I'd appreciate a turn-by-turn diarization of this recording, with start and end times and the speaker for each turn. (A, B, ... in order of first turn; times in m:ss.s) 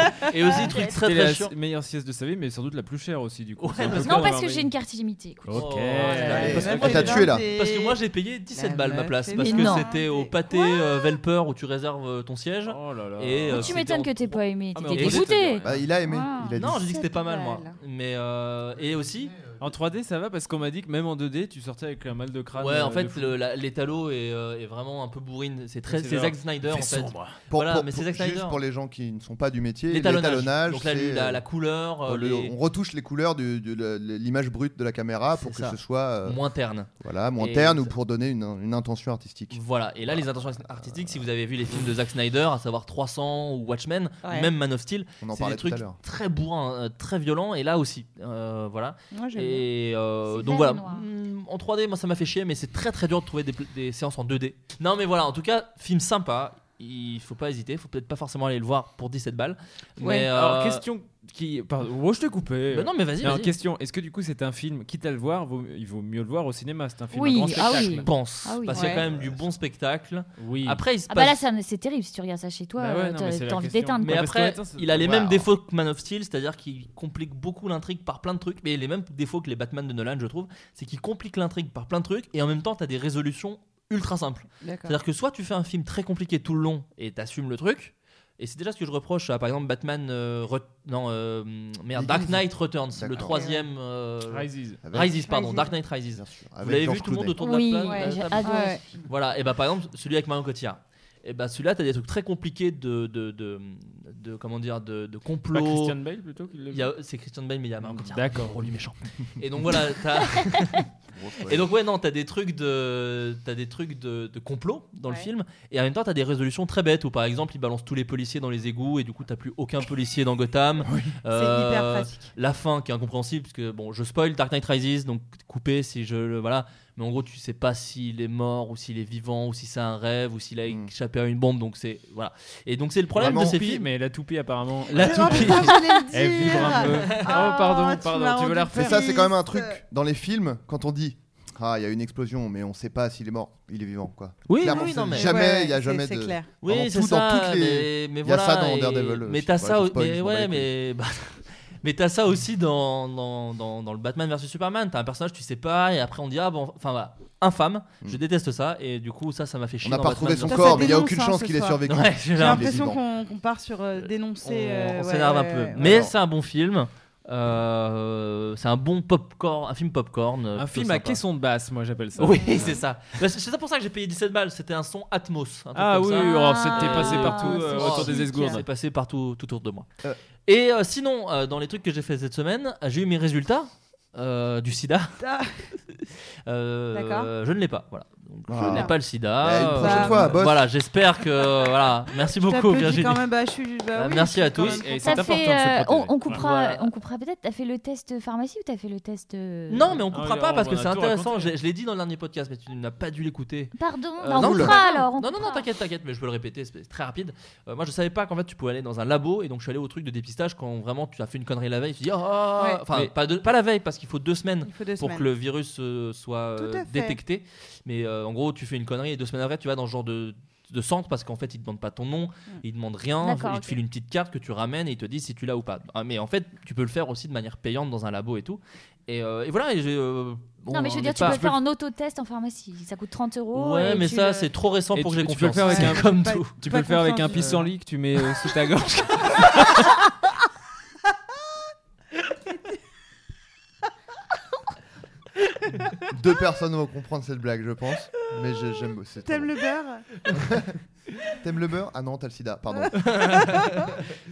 0:00.3-0:01.5 A
0:00.8-0:04.7 B
0:03.6-0:04.3 A
0:04.0-0:06.5 C
0:05.4-0:07.2 B
0:05.5-0:15.8 A
0:06.1-0:08.0 D
0:06.3-0:07.4 E
0:08.5-0:10.3 D
0:09.3-0:09.9 C
0:12.6-0:13.8 B
0:13.5-0:16.6 C
0:14.7-0:15.6 B
0:15.6-0:16.8 E
0:16.6-0:19.3 A
0:16.8-0:17.7 D
0:18.8-0:19.7 E
0:19.6-0:23.3 B
0:22.6-0:28.6 A
0:25.9-0:27.4 B
0:27.5-0:31.4 E
0:29.9-0:32.5 A
0:32.0-0:36.4 E
0:35.4-0:37.9 A
0:37.0-0:40.2 E
0:39.5-1:00.8 A
0:40.8-0:41.2 E
0:44.2-0:44.5 D
0:45.2-0:46.0 E
0:49.1-0:49.6 D
0:50.3-0:51.0 C
1:00.0-1:00.3 D
1:00.3-1:08.1 B
1:02.7-1:03.5 A
1:07.1-1:09.0 C
1:07.5-1:11.4 A
1:08.7-1:09.0 D
1:10.4-1:10.8 B
1:11.1-1:14.3 C
1:12.8-1:15.4 B
1:14.0-1:46.0 A
1:24.6-1:25.0 D
1:31.9-1:33.4 E
1:33.2-1:33.6 D
1:34.3-1:34.8 B
1:34.8-1:35.3 E
1:35.2-1:35.7 D
1:36.1-1:37.4 E
1:37.4-1:38.9 C
1:37.8-1:38.8 D
1:45.5-1:46.9 B
1:46.7-1:50.9 A
1:47.8-1:48.7 B
1:51.1-1:51.6 E
1:51.4-2:13.9 A
2:00.8-2:01.1 E
2:01.3-2:02.3 D
2:13.2-2:13.6 E
2:13.2-2:19.1 B
2:14.9-2:15.8 A
2:14.9-2:19.8 D
2:16.5-2:17.5 A
2:18.7-2:30.7 E
2:24.5-2:25.4 A
2:24.6-2:26.5 D
2:26.6-2:41.0 A
2:39.8-2:43.0 E
2:40.5-2:41.8 D
2:41.9-2:42.8 A
2:42.4-2:46.1 D
2:44.0-2:51.2 A
2:45.8-2:46.1 E
2:50.6-2:52.8 B
2:52.2-2:59.9 A
2:55.7-2:58.6 B
2:56.3-2:58.6 D
3:00.4-3:05.2 A
3:05.2-3:05.7 D
3:06.4-3:13.2 A
3:06.9-3:07.3 D
3:08.5-3:10.7 E
3:08.6-3:08.9 D
3:09.7-3:10.3 D
3:12.4-3:15.4 D
3:13.9-3:15.2 A
3:14.5-3:16.4 B
3:15.0-3:20.0 C
3:16.3-3:16.9 A
3:19.7-3:51.5 A
3:20.1-3:21.5 B
3:23.7-3:25.6 C
3:24.4-3:24.7 E
3:24.7-3:25.0 D
3:32.6-3:32.8 D
3:34.6-3:35.3 D
3:36.6-3:37.2 D
3:43.2-3:43.8 C
3:50.7-3:54.5 C
3:51.1-3:51.6 B
3:53.5-3:56.5 A
3:54.9-3:59.9 B
3:55.6-3:57.7 D
4:06.1-4:09.5 E
4:09.2-4:10.0 D
4:10.3-4:10.7 E
4:11.4-4:13.1 E
4:13.0-4:14.0 A
4:13.4-4:13.7 D